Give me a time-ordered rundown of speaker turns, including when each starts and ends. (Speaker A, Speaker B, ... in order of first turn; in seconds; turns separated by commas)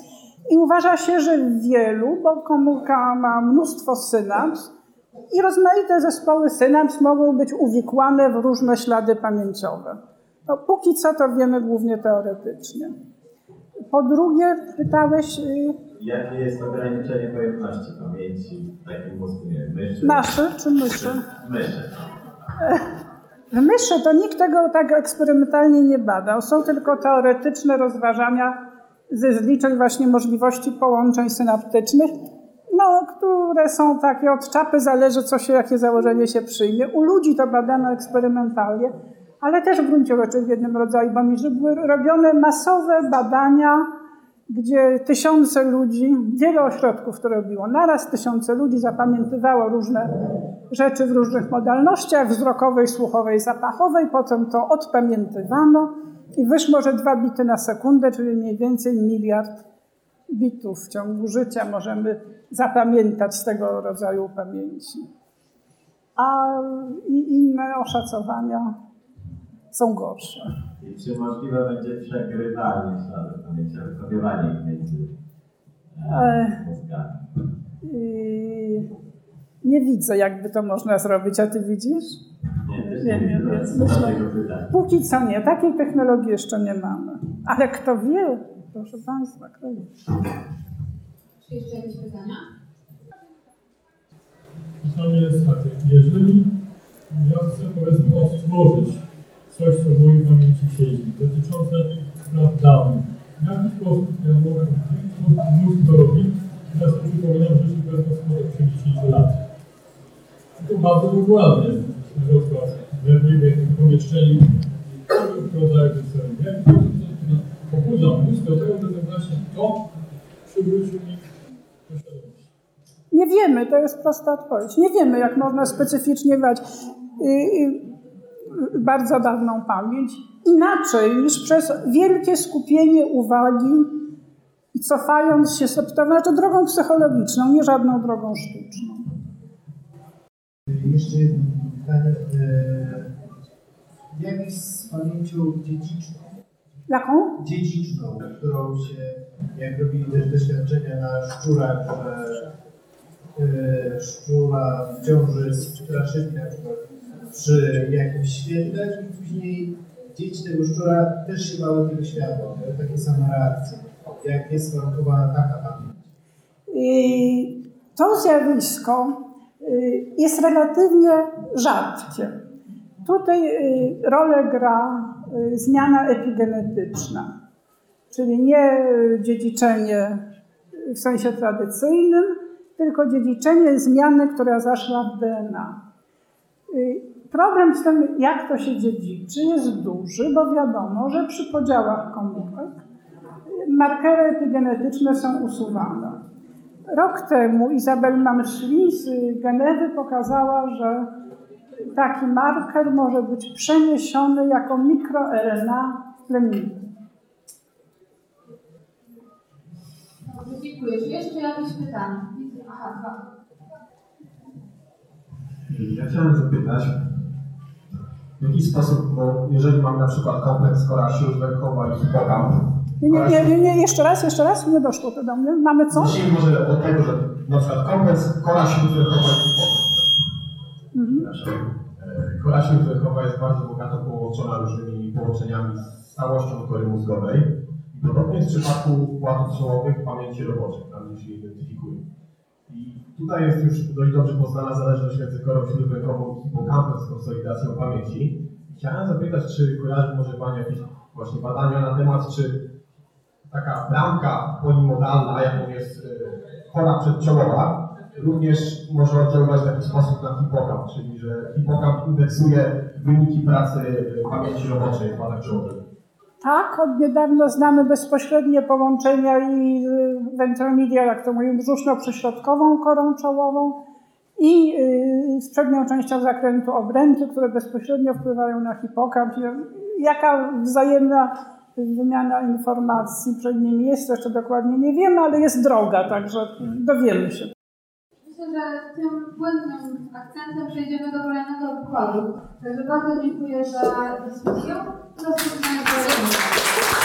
Speaker A: 0.5-4.7, Speaker A: 5.3-12.9, Speaker A: 13.9-15.8, Speaker B: 15.9-20.3, Speaker A: 20.0-21.3, Speaker B: 21.2-22.1, Speaker A: 23.5-28.6, Speaker A: 29.1-32.1, Speaker A: 32.7-43.9, Speaker A: 44.5-50.2, Speaker A: 50.7-59.6, Speaker A: 60.3-65.0, Speaker A: 66.2-68.7, Speaker A: 69.7-70.5, Speaker B: 70.8-75.1, Speaker B: 75.9-77.2, Speaker A: 76.1-76.6, Speaker A: 77.8-78.9, Speaker A: 79.6-82.2, Speaker B: 82.6-84.7, Speaker A: 82.8-84.2, Speaker A: 84.7-89.9, Speaker C: 91.4-92.4, Speaker D: 94.8-96.5, Speaker D: 97.1-109.3, Speaker D: 110.6-119.8, Speaker D: 120.5-121.2, Speaker D: 121.8-122.4, Speaker A: 123.1-127.9, Speaker A: 128.5-134.1, Speaker A: 134.7-139.1, Speaker E: 140.7-143.1, Speaker E: 144.1-146.3, Speaker A: 146.9-147.4, Speaker E: 147.4-152.5, Speaker E: 153.3-165.9, Speaker A: 166.7-172.3, Speaker A: 173.0-177.3, Speaker A: 178.1-180.2, Speaker A: 180.8-185.8, Speaker A: 186.7-192.8, Speaker A: 193.5-196.2, Speaker A: 196.9-201.1, Speaker A: 201.9-206.9, Speaker C: 210.2-213.2, Speaker F: 215.7-217.1, Speaker F: 218.4-223.5, Speaker A: 223.0-226.2, Speaker F: 225.9-230.0, Speaker A: 230.9-231.3, Speaker F: 231.9-242.1, Speaker F: 242.7-252.6, Speaker F: 253.5-265.8, Speaker A: 266.4-273.8, Speaker A: 274.4-287.5, Speaker C: 288.2-296.6